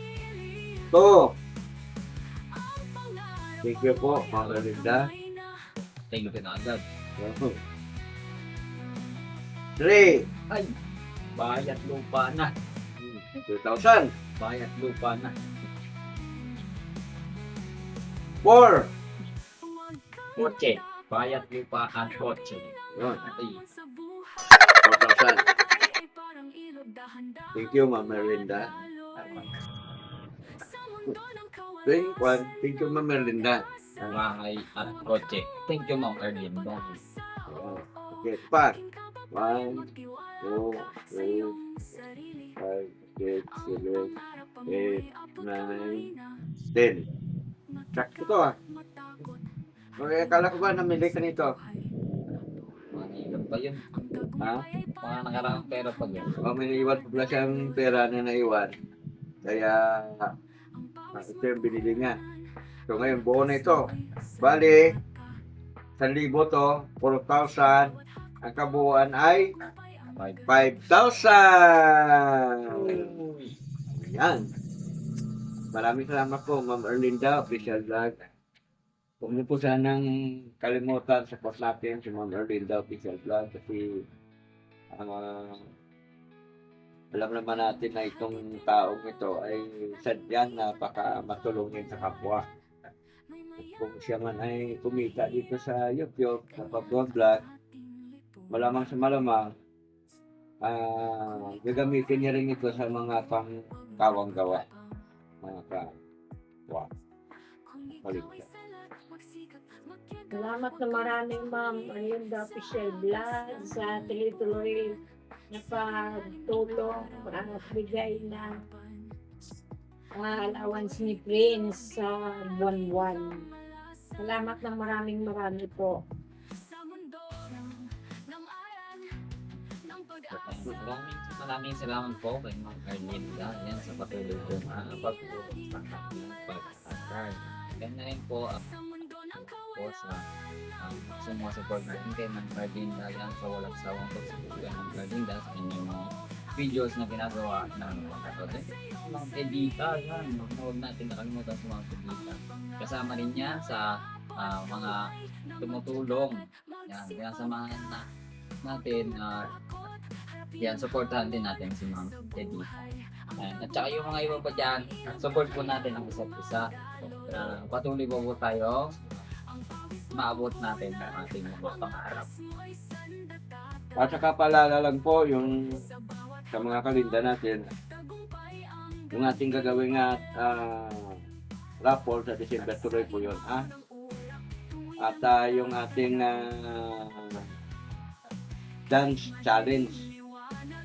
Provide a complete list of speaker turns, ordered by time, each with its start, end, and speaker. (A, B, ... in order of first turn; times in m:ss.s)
0:00.9-0:01.4 A
0:03.6-0:05.1 A
0:06.1-0:06.8 B
0:07.2-0:07.6 A
0:09.8-0:10.3 A
0:10.5-0:10.7 B
0:11.3-0:12.6 B
0:13.0-0:14.1 A
0:14.4-0:15.4 B
0:18.4-0:18.9 A
0:20.4-0:23.6 B
0:22.9-0:23.2 A
0:24.8-0:25.5 A
0:27.5-0:28.7 A
0:31.8-0:34.2 A
0:34.1-0:37.0 B
0:37.5-0:38.8 A
0:39.3-0:39.9 A
0:40.4-0:41.6 A
0:42.6-0:44.1 A
0:44.6-0:46.1 A
0:46.7-0:47.0 A
0:47.9-0:48.6 A
0:50.0-0:51.6 A
0:52.9-0:53.8 B
0:54.4-0:54.6 A
0:55.0-0:56.3 B
0:56.4-0:58.7 A
0:59.4-1:00.3 A
1:01.1-1:02.2 A
1:02.9-1:03.9 A
1:04.4-1:04.9 A
1:06.0-1:09.5 A
1:10.2-1:10.5 B
1:10.4-1:13.1 A
1:12.7-1:13.5 B
1:13.9-1:14.4 A
1:15.7-1:18.1 A
1:19.2-1:20.0 A
1:20.6-1:23.9 A
1:24.9-1:25.7 A
1:27.1-1:32.4 A
1:33.8-1:37.4 A
1:38.5-1:39.5 A
1:40.6-1:44.6 A
1:45.4-1:45.9 A
1:48.0-1:48.5 A
1:50.3-1:54.9 C
1:55.5-1:58.6 C
2:00.1-2:03.5 C
2:04.2-2:06.0 C
2:10.3-2:18.6 B
2:19.3-2:20.3 B
2:20.8-2:38.1 B
2:38.6-2:39.5 B
2:40.6-2:42.7 B
2:43.4-2:49.0 B
2:50.1-2:52.3 B
2:53.9-2:55.9 A
2:56.5-2:57.6 A
2:59.1-3:01.2 A
3:01.8-3:03.7 A
3:05.0-3:07.4 A
3:08.9-3:10.1 A